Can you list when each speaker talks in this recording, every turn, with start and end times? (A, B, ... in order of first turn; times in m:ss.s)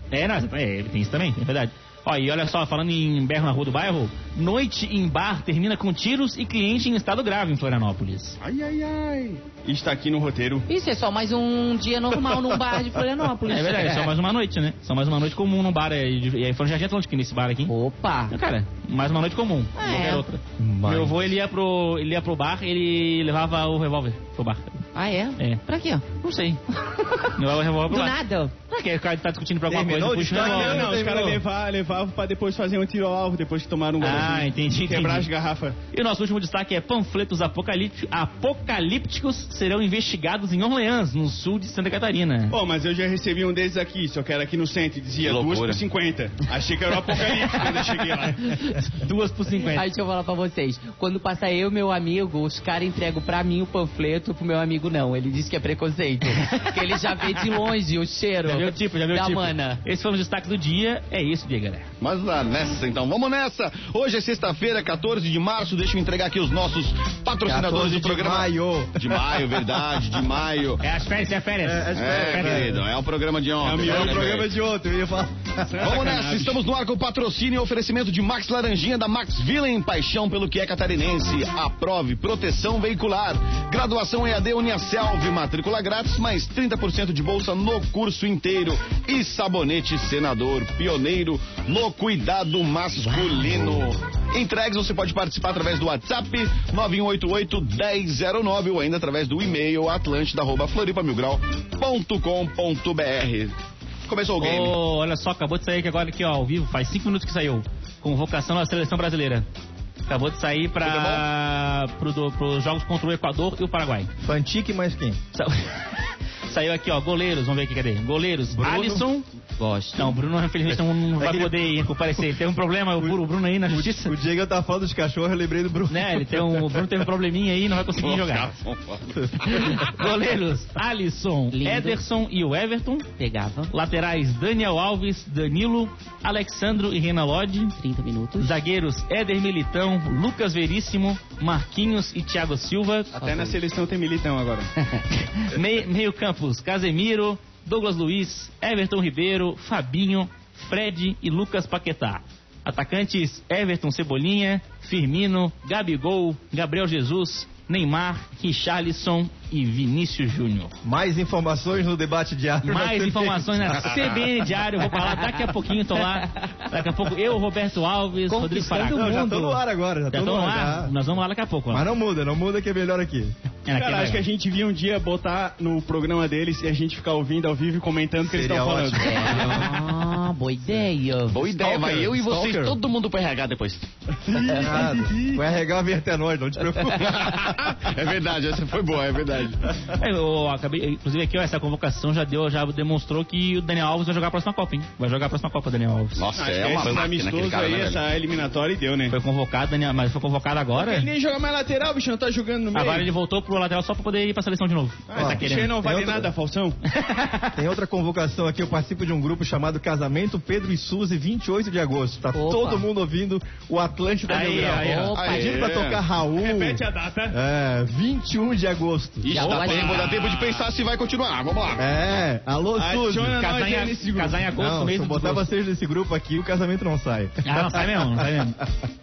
0:00.1-0:08.4 A
0:08.4-0:10.6 B
0:10.7-0:14.1 C
0:13.5-0:17.7 A
0:17.7-0:18.3 C
0:18.3-0:24.8 A
0:19.8-0:20.2 C
0:20.6-0:21.2 D
0:25.0-0:26.1 C
0:25.4-0:26.6 A
0:26.9-0:27.3 C
0:27.3-0:28.2 A
0:27.9-0:28.5 C
0:28.7-0:30.9 A
0:29.7-0:31.4 D
0:30.3-0:35.8 B
0:34.0-0:35.3 A
0:35.9-0:42.6 A
0:42.5-0:48.6 B
0:45.2-0:45.8 E
0:48.4-0:49.8 A
0:49.6-0:59.8 C
0:56.5-0:57.4 A
0:58.4-1:01.9 A
1:02.0-1:10.8 E
1:07.5-1:09.9 D
1:10.8-1:12.7 A
1:11.6-1:12.8 D
1:12.0-1:14.5 E
1:13.6-1:14.4 B
1:13.8-1:16.0 D
1:15.7-1:16.6 B
1:15.8-1:43.5 E
1:44.1-1:44.8 E
1:44.4-1:49.5 A
1:50.1-1:54.1 A
1:50.8-1:51.2 E
1:54.2-1:55.2 D
1:55.3-1:59.2 A
1:58.5-1:59.1 D
1:59.6-2:00.2 C
2:00.0-2:04.2 A
2:01.2-2:01.6 D
2:03.0-2:06.9 D
2:05.9-2:08.5 A
2:08.0-2:09.9 E
2:09.4-2:13.1 A
2:11.5-2:12.0 C
2:13.2-2:13.7 C
2:13.7-2:17.8 A
2:17.8-2:18.5 C
2:18.4-2:23.1 A
2:23.2-2:24.7 B
2:23.2-2:23.5 C
2:25.4-2:40.7 A
2:40.8-2:44.2 D
2:42.6-2:49.6 A
2:46.2-2:46.4 C
2:48.3-2:49.1 C
2:48.5-2:50.9 D
2:50.1-2:51.9 A
2:51.7-2:53.3 D
2:53.7-2:54.2 A
2:53.7-2:59.6 B
2:58.3-2:59.7 D
2:59.0-3:01.5 C
3:01.3-3:03.9 E
3:01.6-3:02.8 D
3:04.3-3:05.4 B
3:04.5-3:07.6 D
3:07.0-3:09.7 E
3:09.9-3:16.2 A
3:16.2-3:18.0 E
3:16.3-3:19.2 B
3:19.1-3:21.1 A
3:20.8-3:23.1 B
3:22.7-3:25.8 A
3:25.1-3:26.8 B
3:25.2-3:26.3 D
3:26.9-3:27.6 A
3:27.5-3:39.4 D
3:32.3-3:32.8 C
3:34.3-3:35.2 A
3:34.5-3:35.7 C
3:35.1-3:36.0 E
3:36.3-3:37.4 B
3:39.2-3:42.0 E
3:39.3-3:40.2 C
3:39.4-3:40.0 A
3:39.4-3:40.6 B
3:41.8-3:43.4 D
3:42.8-3:44.5 B
3:43.4-3:45.5 A
3:44.6-3:48.5 D
3:47.4-3:48.6 A